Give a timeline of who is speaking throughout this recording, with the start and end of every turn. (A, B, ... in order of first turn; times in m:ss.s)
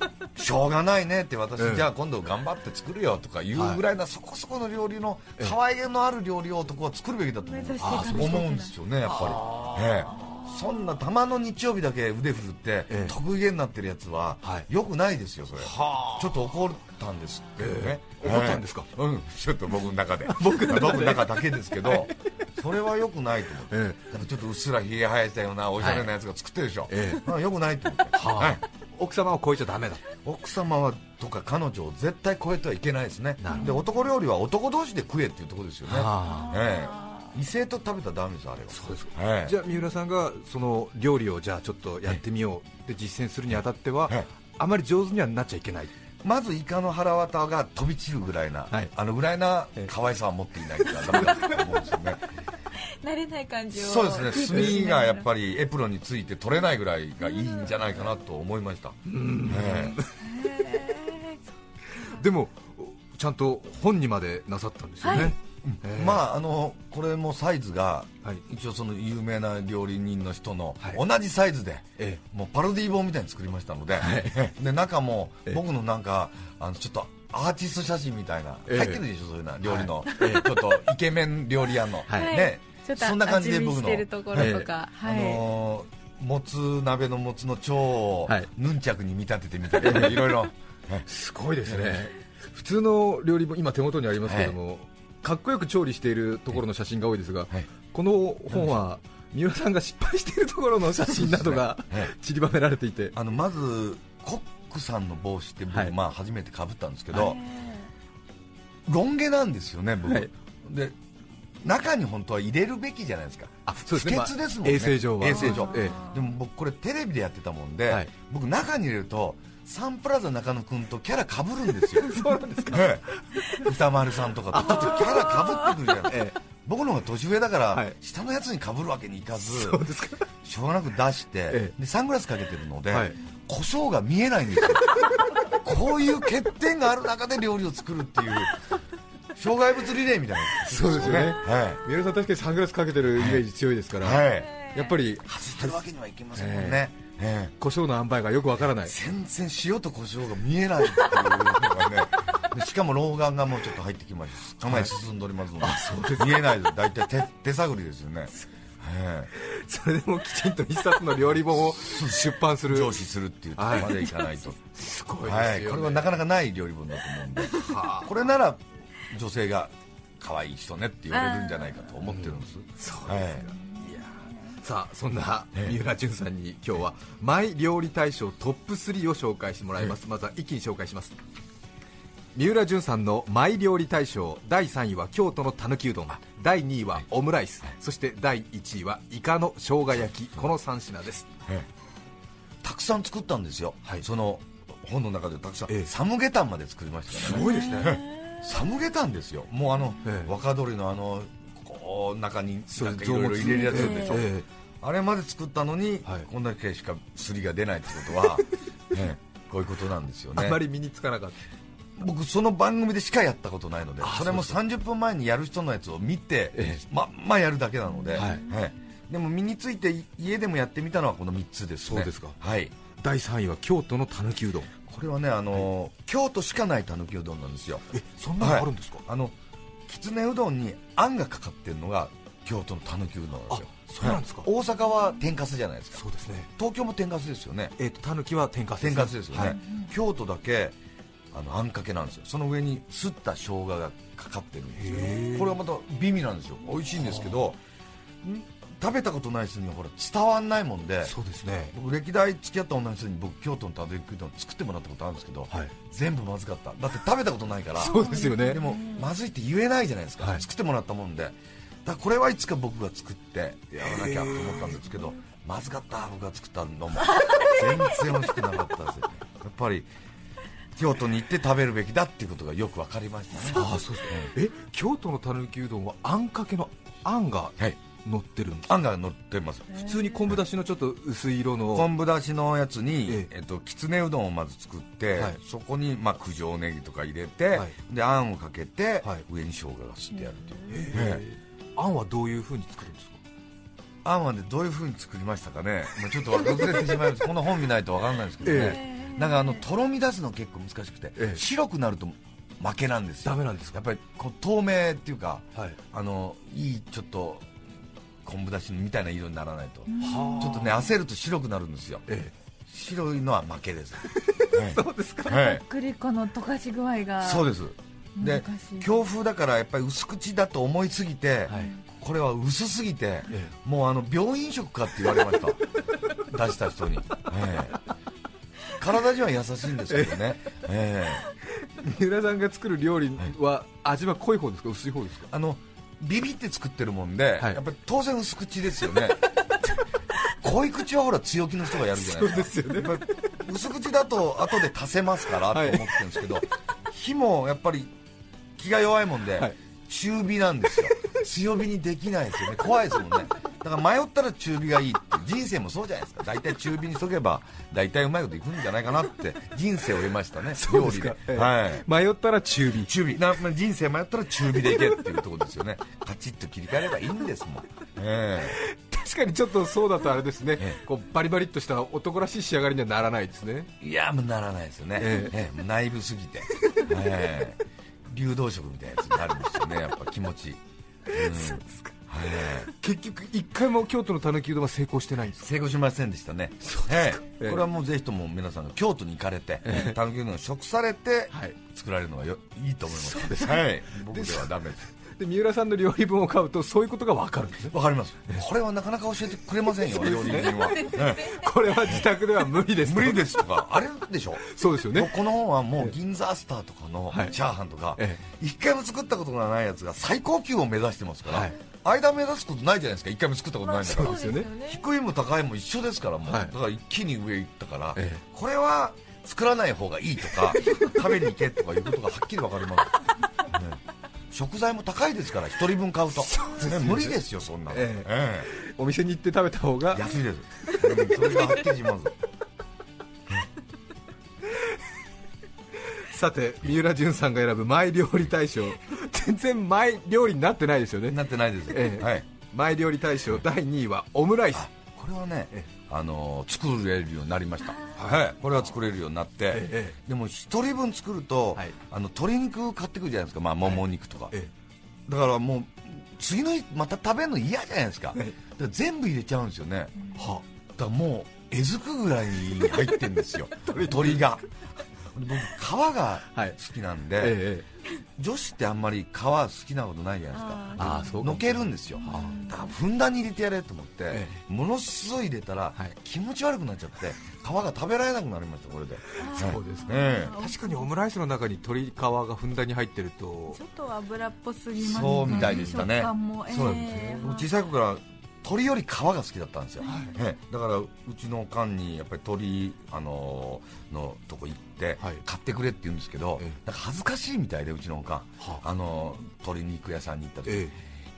0:00.4-0:28.6 A
0:01.6-0:01.9 B
0:03.5-0:03.8 B
0:07.4-0:08.7 C
0:07.8-0:08.5 B
0:09.0-0:10.4 B
0:12.9-0:13.2 B
0:15.6-0:16.4 B
0:17.6-0:18.9 B
0:20.3-0:22.1 B
0:23.7-0:24.0 B
0:25.8-0:26.1 B
0:26.9-0:27.2 B
0:28.1-0:30.0 B
0:30.2-0:39.5 A
0:33.4-0:33.7 B
0:33.5-0:33.9 C
0:35.8-0:36.6 B
0:36.3-0:37.3 C
0:38.7-0:45.9 B
0:46.2-0:52.2 A
0:53.0-0:55.2 C
0:53.7-1:00.0 A
0:54.5-0:54.7 B
0:59.0-1:00.2 B
1:00.2-1:01.4 C
1:02.0-1:06.2 B
1:05.0-1:05.3 C
1:05.2-1:31.0 A
1:14.0-1:14.5 B
1:18.7-1:19.0 B
1:19.6-1:20.6 B
1:22.1-1:22.4 B
1:22.1-1:25.4 C
1:24.3-1:24.7 B
1:29.8-1:30.5 B
1:31.0-1:43.2 B
1:31.6-1:32.0 A
1:34.2-1:34.6 A
1:41.2-1:42.1 A
1:43.1-1:47.4 A
1:47.2-1:47.9 C
1:48.8-1:51.0 A
1:51.6-2:09.8 A
1:53.6-1:56.0 B
1:55.4-1:56.2 C
2:02.0-2:03.6 B
2:04.5-2:05.4 B
2:06.0-2:06.4 B
2:09.4-2:10.2 B
2:10.4-2:15.0 A
2:11.5-2:11.7 B
2:12.9-2:13.2 B
2:15.5-2:18.6 A
2:19.3-2:21.8 A
2:20.6-2:25.8 B
2:23.2-2:23.4 A
2:24.0-2:24.7 A
2:25.2-2:27.5 A
2:26.3-2:26.8 B
2:27.6-2:28.9 B
2:28.8-2:39.3 A
2:34.6-2:34.9 B
2:35.6-2:36.6 B
2:39.3-2:43.0 B
2:41.6-2:44.6 A
2:43.6-2:44.0 B
2:44.6-2:46.1 B
2:45.2-2:53.5 A
2:47.5-2:48.1 B
2:51.1-2:51.9 C
2:52.1-3:01.2 B
2:53.5-2:54.5 C
3:02.3-3:11.3 B
3:12.6-3:30.6 A
3:17.1-3:18.0 B
3:17.4-3:18.0 C
3:20.0-3:20.3 B
3:22.7-3:24.4 B
3:23.5-3:24.2 C
3:30.3-3:31.4 B
3:32.0-3:42.7 A
3:34.0-3:34.6 B
3:36.5-3:36.8 B
3:38.2-3:38.4 B
3:41.8-3:42.4 B
3:43.0-3:44.7 B
3:44.8-3:47.9 A
3:47.9-3:49.0 B
3:48.4-3:49.3 A
3:49.9-3:56.0 A
3:53.5-3:54.5 B
3:55.9-3:56.5 B
3:56.6-3:57.7 A
3:57.8-3:59.5 B
3:58.8-4:00.8 A
3:59.4-3:59.9 C
4:01.3-4:07.6 A
4:04.8-4:05.6 B
4:08.2-4:11.1 A
4:11.0-4:11.7 B
4:11.7-4:29.9 A
4:17.8-4:18.6 B
4:17.8-4:19.1 C
4:23.7-4:24.7 B
4:27.1-4:27.6 C
4:30.8-4:34.3 A
4:33.5-4:38.7 B
4:38.7-4:39.8 A
4:39.8-4:41.9 B
4:41.7-4:51.2 A
4:50.2-4:50.8 C
4:50.7-4:53.2 B
4:54.0-5:07.5 A
4:58.4-4:58.8 B
4:58.5-4:59.6 C
5:01.2-5:01.4 B
5:03.2-5:03.8 B
5:08.2-5:12.0 A
5:09.9-5:10.7 C
5:10.0-5:10.7 B
5:12.1-5:12.3 B
5:12.7-5:15.6 A
5:14.1-5:15.5 B
5:15.3-5:17.5 C
5:17.2-5:25.6 A
5:18.2-5:19.0 C
5:21.5-5:21.7 B
5:23.3-5:23.5 B
5:26.2-5:27.8 A
5:28.8-5:31.3 A
5:29.9-5:30.2 B
5:31.6-5:35.3 B
5:35.3-5:39.3 A
5:40.4-5:47.9 A
5:41.9-5:43.3 B
5:45.5-5:46.2 B
5:48.6-6:01.9 A
6:00.5-6:03.0 B
6:02.8-6:08.6 A
6:08.5-6:13.7 B
6:13.8-6:22.7 A
6:15.0-6:15.3 B
6:21.2-6:25.4 B
6:25.4-6:34.8 A
6:26.6-6:27.6 B
6:29.6-6:30.0 B
6:31.3-6:31.6 B
6:32.9-6:37.8 B
6:37.7-6:42.0 A
6:39.9-6:43.4 B
6:42.8-7:03.8 A
6:44.4-6:45.1 B
6:47.1-6:47.4 B
6:48.0-6:48.2 B
6:51.3-6:51.6 B
6:53.7-6:54.8 C
6:53.8-6:54.5 B
6:56.2-6:56.5 B
6:57.9-6:58.2 B
7:04.3-7:08.5 A
7:06.3-7:07.2 B
7:07.7-7:10.1 B
7:09.9-7:12.1 A
7:15.9-7:24.7 B
7:21.1-7:22.2 A
7:24.5-7:34.3 A
7:28.0-7:28.2 B
7:29.5-7:30.0 B
7:33.6-7:34.5 B
7:35.1-7:40.1 A
7:40.2-7:40.4 B
7:40.8-7:44.4 A
7:43.6-7:44.3 B
7:45.1-7:47.4 A
7:46.3-7:46.6 B
7:47.2-7:47.6 B
7:48.2-8:00.4 A
7:50.3-7:51.2 C
7:50.8-7:52.4 B
7:52.0-7:52.8 C
7:54.1-7:54.4 B
7:59.2-8:00.9 C
7:59.2-8:03.6 B
8:03.5-8:07.5 C
8:04.8-8:20.7 A
8:05.2-8:05.8 B
8:06.5-8:07.2 B
8:09.8-8:10.2 C
8:20.4-8:20.7 B